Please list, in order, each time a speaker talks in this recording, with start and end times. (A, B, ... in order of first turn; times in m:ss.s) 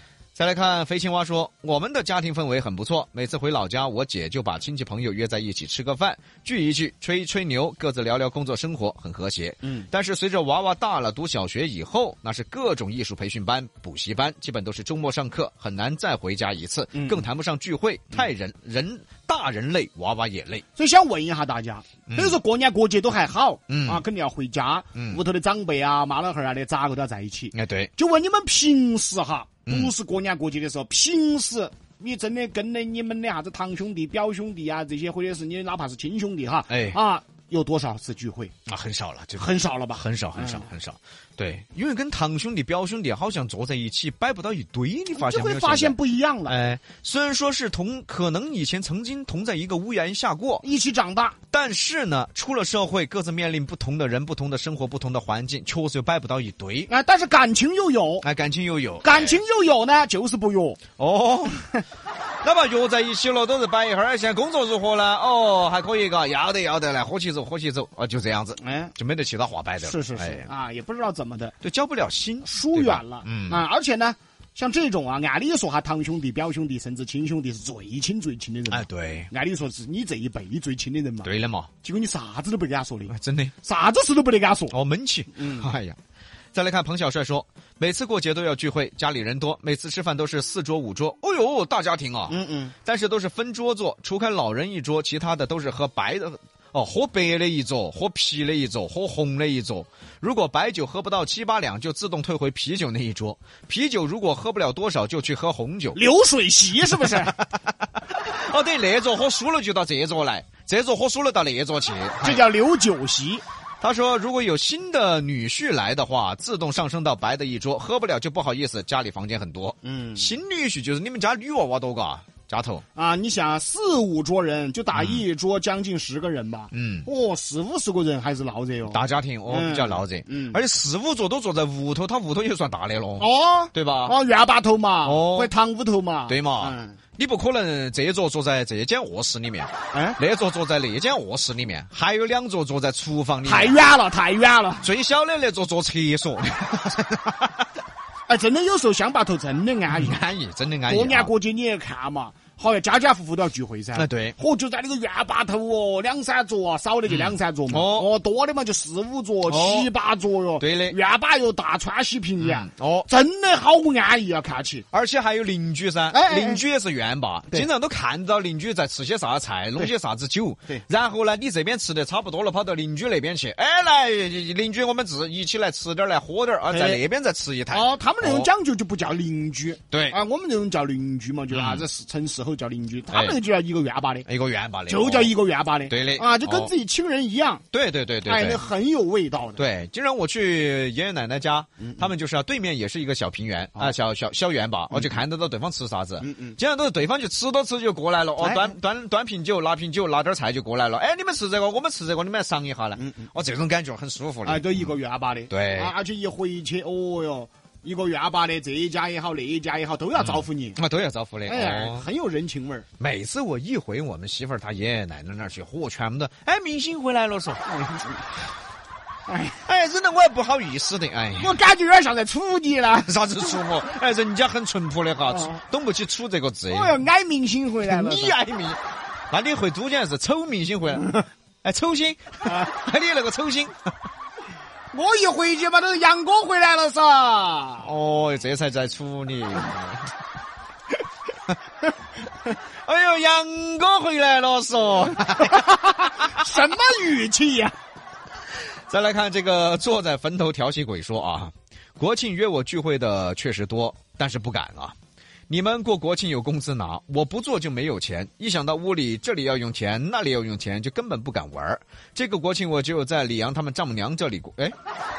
0:00.4-0:20.6 A
0:16.9-0:17.2 B
0:20.8-0:38.5 B
0:22.1-0:22.3 A
0:23.7-0:24.0 A
0:27.5-0:27.9 A
0:29.7-0:29.9 A
0:36.7-0:37.0 A
0:38.7-0:46.0 A
0:39.4-0:40.7 B
0:45.2-0:46.6 B
0:46.5-0:50.6 A
0:50.6-0:51.4 B
0:51.5-0:56.9 A
0:56.9-0:58.2 B
0:58.2-0:59.4 A
0:59.0-1:00.8 B
1:01.0-1:01.7 A
1:02.4-1:10.5 A
1:08.6-1:08.9 B
1:09.8-1:11.6 B
1:11.6-1:13.6 A
1:12.4-1:21.3 B
1:18.7-1:19.3 A
1:21.2-1:21.7 A
1:21.8-1:23.1 B
1:23.1-1:23.5 A
1:23.6-1:24.8 B
1:24.7-1:26.0 A
1:25.4-1:25.7 B
1:26.5-1:46.0 A
1:32.3-1:32.8 B
1:46.0-1:47.4 B
1:46.9-1:52.4 A
1:52.2-1:53.4 B
1:53.8-2:02.8 A
1:59.8-2:00.3 B
2:03.0-2:10.6 B
2:04.9-2:05.2 A
2:06.7-2:07.1 A
2:08.9-2:14.2 A
2:13.2-2:17.0 B
2:15.0-2:15.5 A
2:16.3-2:23.8 A
2:19.9-2:20.2 B
2:23.4-2:24.9 B
2:24.8-2:27.6 A
2:28.3-2:30.2 B
2:29.9-2:31.3 A
2:30.9-2:44.9 B
2:34.0-2:34.4 A
2:37.1-2:38.1 A
2:39.5-2:39.9 A
2:40.6-2:41.0 A
2:42.4-2:43.1 A
2:44.9-2:58.5 A
2:46.1-2:46.6 B
2:56.7-2:57.0 B
2:57.7-3:04.3 B
2:59.9-3:00.2 A
3:01.5-3:01.8 A
3:03.1-3:03.4 A
3:04.3-3:05.3 A
3:04.9-3:07.6 B
3:05.9-3:06.7 A
3:07.7-3:08.6 A
3:08.2-3:09.6 B
3:09.6-3:24.9 A
3:14.9-3:15.2 B
3:16.2-3:16.6 B
3:18.4-3:18.7 B
3:24.4-3:30.8 B
3:25.5-3:25.9 A
3:30.2-3:32.0 A
3:31.5-3:32.9 B
3:33.0-3:37.7 A
3:37.7-3:38.2 B
3:39.3-3:39.6 B
3:39.6-3:41.6 A
3:41.4-3:43.6 B
3:43.1-3:46.9 A
3:45.3-3:45.6 B
3:46.7-3:48.4 B
3:47.8-3:48.8 A
3:49.3-3:53.7 A
3:54.9-3:57.9 B
3:57.8-4:00.1 A
4:02.8-4:05.8 A
4:05.4-4:07.8 B
4:08.9-4:15.0 A
4:15.5-4:24.8 A